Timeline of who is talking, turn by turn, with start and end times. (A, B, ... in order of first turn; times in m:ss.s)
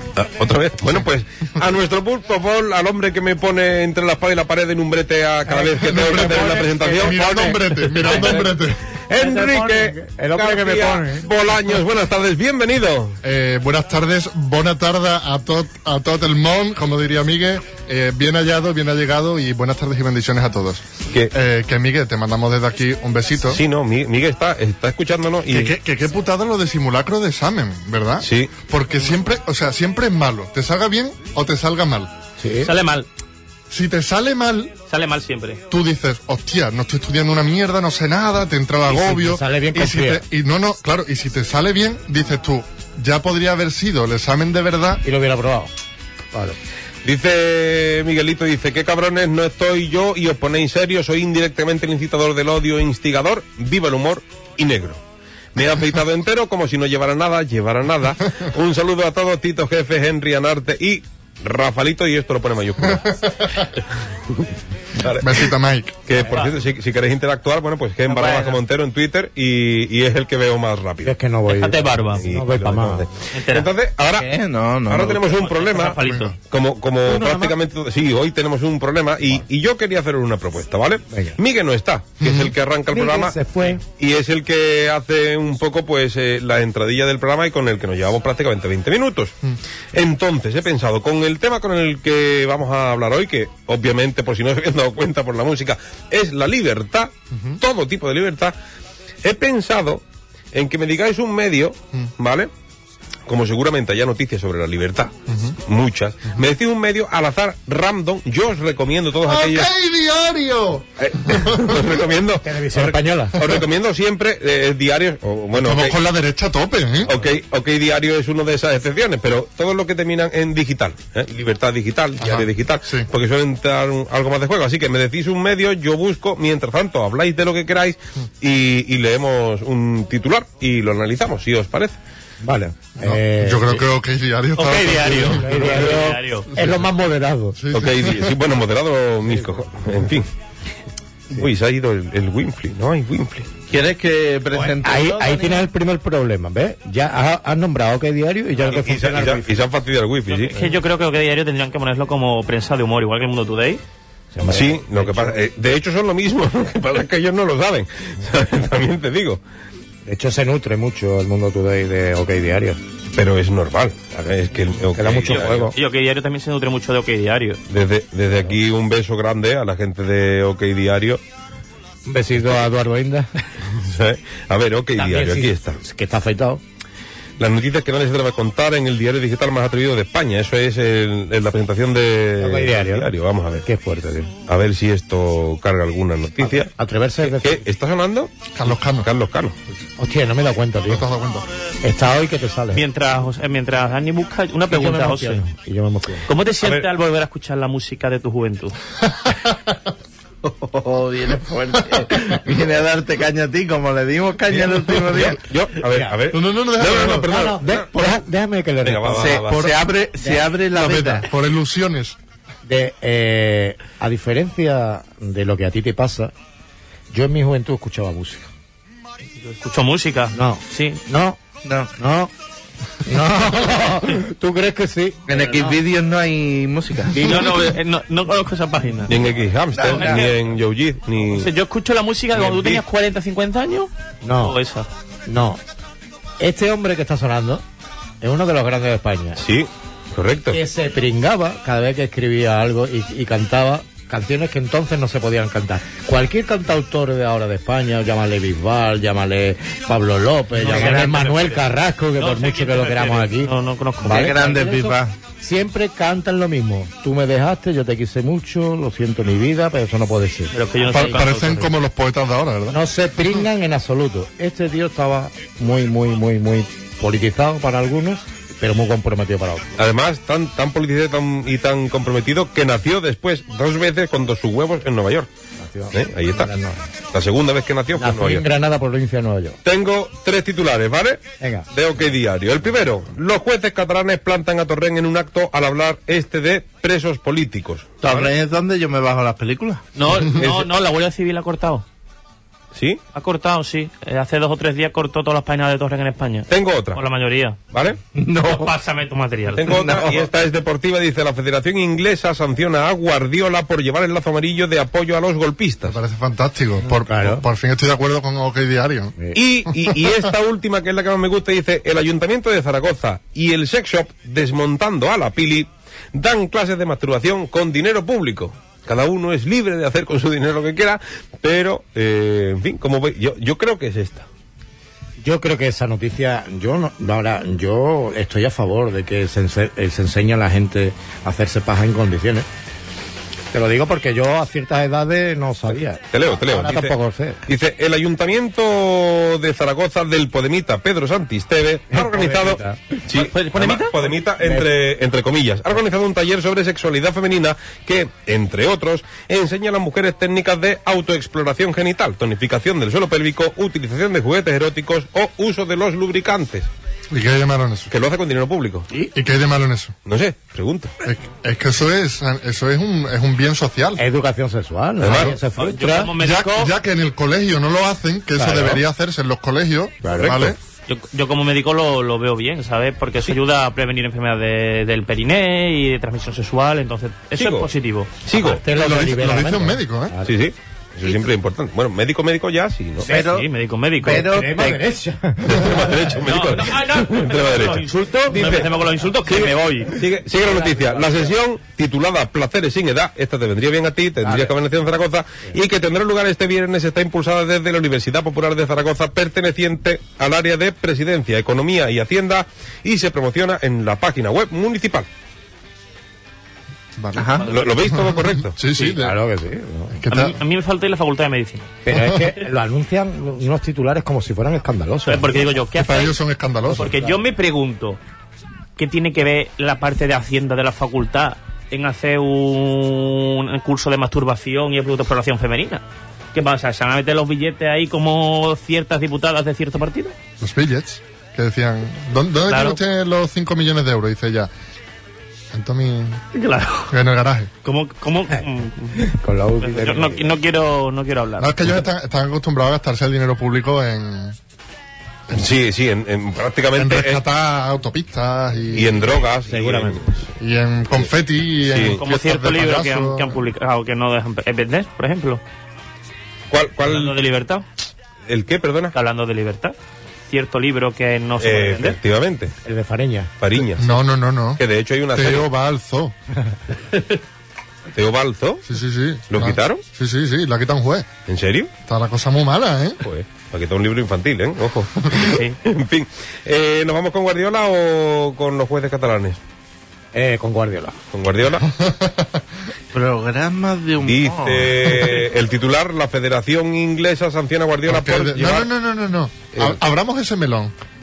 0:00.2-0:07.2 A
0:05.5-0:11.3 B
0:05.9-0:08.8 C
0:08.0-0:08.4 A
0:09.1-0:13.2 A
0:13.2-0:23.6 C
0:23.5-0:25.8 A
0:25.5-0:32.1 C
0:28.2-0:28.5 A
0:32.4-0:32.7 B
0:32.6-0:33.1 D
0:33.7-0:34.7 C
0:34.9-0:35.6 D
0:35.7-0:45.0 C
0:38.9-0:40.3 B
0:45.0-0:45.7 B
0:47.0-0:55.0 A
0:55.6-1:03.6 A
1:04.3-1:05.5 A
1:05.2-1:06.0 C
1:06.1-1:11.2 A
1:06.2-1:06.5 D
1:08.1-1:08.6 E
1:11.0-1:13.1 B
1:11.5-1:12.2 D
1:12.2-1:14.3 A
1:13.3-1:13.7 D
1:14.1-1:15.3 E
1:14.9-1:23.4 A
1:15.3-1:16.3 D
1:16.0-1:16.3 C
1:17.0-1:17.6 B
1:21.1-1:21.4 B
1:22.2-1:22.5 C
1:22.9-1:23.8 B
1:23.9-1:29.4 A
1:29.9-1:38.5 A
1:37.4-1:37.6 C
1:39.2-1:42.5 A
1:43.3-1:45.1 A
1:45.3-1:45.6 C
1:45.7-1:49.7 A
1:49.2-1:51.9 C
1:51.0-1:56.0 A
1:52.4-1:53.4 B
1:55.6-1:57.1 C
1:57.1-2:12.0 A
2:02.2-2:03.1 C
2:12.4-2:13.8 B
2:13.0-2:16.0 C
2:14.6-2:16.5 D
2:15.0-2:17.6 B
2:17.6-2:18.3 C
2:17.7-2:20.3 A
2:19.3-2:19.5 B
2:21.3-2:23.5 A
2:23.7-2:25.7 E
2:24.6-2:29.6 B
2:28.6-2:30.6 A
2:30.3-2:33.8 D
2:34.3-2:35.4 B
2:34.5-2:39.4 A
2:40.0-2:42.8 B
2:43.2-2:45.7 A
2:44.9-2:45.8 B
2:45.3-2:47.6 D
2:47.7-2:51.2 A
2:52.1-2:53.3 B
2:53.8-2:55.8 A
2:55.0-2:56.6 B
2:57.4-3:03.6 A
3:02.4-3:03.1 B
3:03.6-3:04.3 B
3:04.5-3:06.7 A
3:06.4-3:07.6 B
3:07.2-3:09.6 A
3:08.6-3:09.1 C
3:10.0-3:11.1 B
3:10.9-3:11.5 C
3:11.8-3:12.8 B
3:12.7-3:15.4 D
3:14.7-3:16.3 B
3:16.3-3:18.8 D
3:20.4-3:25.4 E
3:24.5-3:27.9 A
3:25.9-3:26.2 B
3:26.3-3:27.3 C
3:27.1-3:29.5 B
3:28.8-3:29.6 A
3:29.2-3:31.3 E
3:30.3-3:32.2 C
3:32.6-3:36.3 B
3:37.1-3:38.5 B
3:39.4-3:41.0 D
3:40.3-3:41.4 B
3:41.6-3:41.9 E
3:42.0-3:42.3 B
3:43.1-3:45.8 B
3:45.3-3:47.4 E
3:47.1-3:47.5 B
3:47.1-3:49.2 D
3:49.1-3:51.5 A
3:49.8-3:50.2 E
3:49.8-3:50.4 D
3:51.3-3:54.9 D
3:52.4-3:52.8 A
3:54.2-3:54.6 B
3:55.3-3:55.6 B
3:56.4-3:57.6 B
3:58.2-3:59.4 B
3:59.4-4:00.6 A
4:00.5-4:20.5 B
4:10.6-4:11.7 D
4:12.2-4:14.4 D
4:14.1-4:15.1 E
4:20.5-4:21.7 D
4:20.9-4:22.8 C
4:22.7-4:29.7 B
4:29.8-4:35.3 A
4:35.6-4:36.9 B
4:35.9-4:36.5 A
4:37.1-4:38.4 A
4:38.0-4:39.6 B
4:39.6-4:41.2 A
4:41.4-4:41.7 B
4:41.7-4:48.3 A
4:48.0-4:49.9 E
4:50.0-4:51.8 D
4:50.4-4:50.7 A
4:52.8-4:53.0 A
4:53.1-4:57.6 D
4:56.5-4:57.0 A
4:57.7-4:58.0 A
4:58.2-4:58.7 E
4:58.4-5:00.1 D
4:59.6-5:06.0 A
4:59.8-5:00.2 E
5:05.9-5:09.2 C
5:06.9-5:07.5 B
5:09.3-5:24.3 A
5:25.2-5:32.5 B
5:33.5-5:37.4 B
5:36.1-5:37.0 A
5:37.5-5:56.7 A
5:41.9-5:43.0 B
5:43.2-5:43.9 D
5:44.4-5:44.7 B
5:57.1-5:57.9 C
5:57.9-5:58.9 A
5:59.1-5:59.9 C
6:00.1-6:00.9 A
6:01.0-6:04.0 C
6:04.0-6:06.2 B
6:05.0-6:05.4 A
6:05.6-6:06.7 D
6:06.2-6:10.6 C
6:08.4-6:08.8 B
6:10.0-6:10.4 B
6:10.2-6:10.6 A
6:10.9-6:18.4 D
6:17.4-6:17.7 A
6:18.2-6:18.6 A
6:18.3-6:20.4 B
6:18.7-6:20.2 C
6:20.2-6:23.1 A
6:23.1-6:23.5 E
6:23.1-6:24.4 D
6:24.0-6:24.8 E
6:24.0-6:26.3 B
6:25.4-6:45.1 A
6:26.2-6:30.0 D
6:28.4-6:28.7 B
6:30.3-6:31.4 B
6:34.2-6:34.6 B
6:47.0-6:49.2 C
6:47.2-6:47.5 E
6:47.5-6:48.6 A
6:48.8-6:50.0 B
6:50.0-6:50.4 C
6:50.1-6:51.7 D
6:51.8-6:55.5 B
6:51.9-6:52.3 C
6:55.1-6:58.0 D
6:55.8-6:56.9 C
6:56.6-6:57.2 B
6:58.8-7:05.8 D
7:06.3-7:10.1 D
7:10.4-7:14.5 C
7:12.5-7:12.8 D
7:15.5-7:16.2 C
7:16.3-7:16.9 D
7:16.9-7:17.5 C
7:17.6-7:19.1 D
7:19.0-7:20.3 B
7:19.6-7:21.8 D
7:21.4-7:24.4 C
7:25.3-7:27.2 A
7:26.8-7:29.2 C
7:28.7-7:30.0 A
7:29.5-7:30.3 B
7:30.4-7:33.4 C
7:31.6-7:32.0 A
7:32.0-7:35.4 D
7:36.5-7:37.2 A
7:36.8-7:37.6 D
7:38.3-7:38.9 A
7:38.9-7:39.8 D
7:40.3-7:42.0 D
7:41.4-7:42.6 A
7:42.6-7:43.3 B
7:43.4-7:44.0 A
7:43.8-7:44.6 C
7:44.6-7:45.5 A
7:45.2-7:46.1 C
7:47.9-7:48.6 A
7:48.7-7:51.1 C
7:49.3-7:49.8 A
7:51.3-7:51.7 A
7:51.9-7:53.0 C
7:53.0-7:59.4 A
7:55.2-7:55.6 D
8:00.1-8:01.0 B
8:01.1-8:01.6 A
8:01.7-8:02.4 C
8:02.9-8:05.1 E
8:04.0-8:08.7 A
8:07.9-8:10.7 C